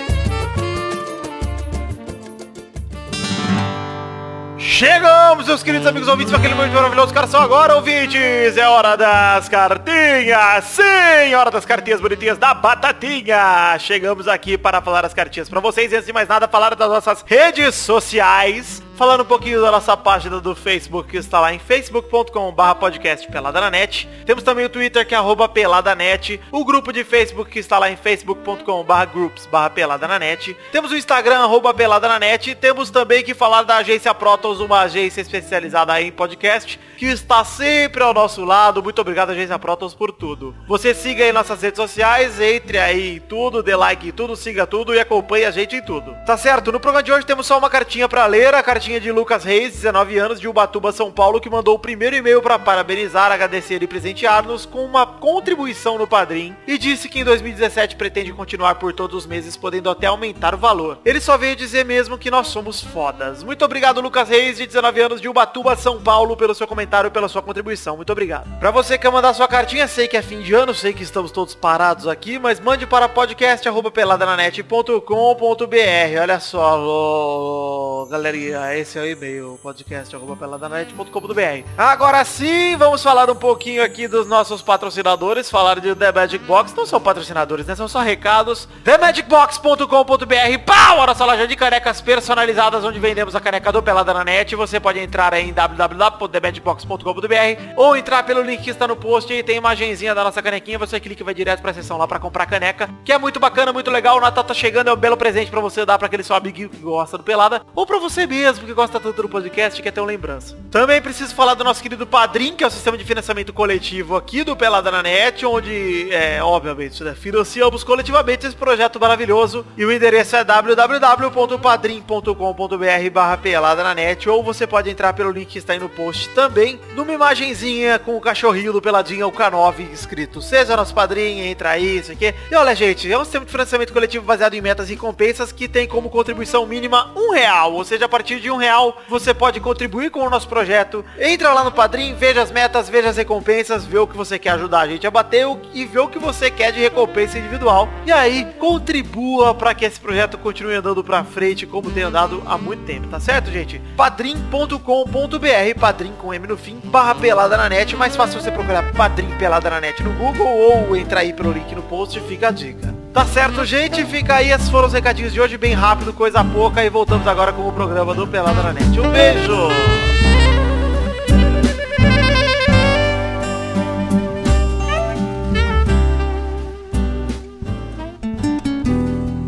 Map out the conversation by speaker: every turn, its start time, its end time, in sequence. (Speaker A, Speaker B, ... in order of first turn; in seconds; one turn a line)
Speaker A: 4.6-170.1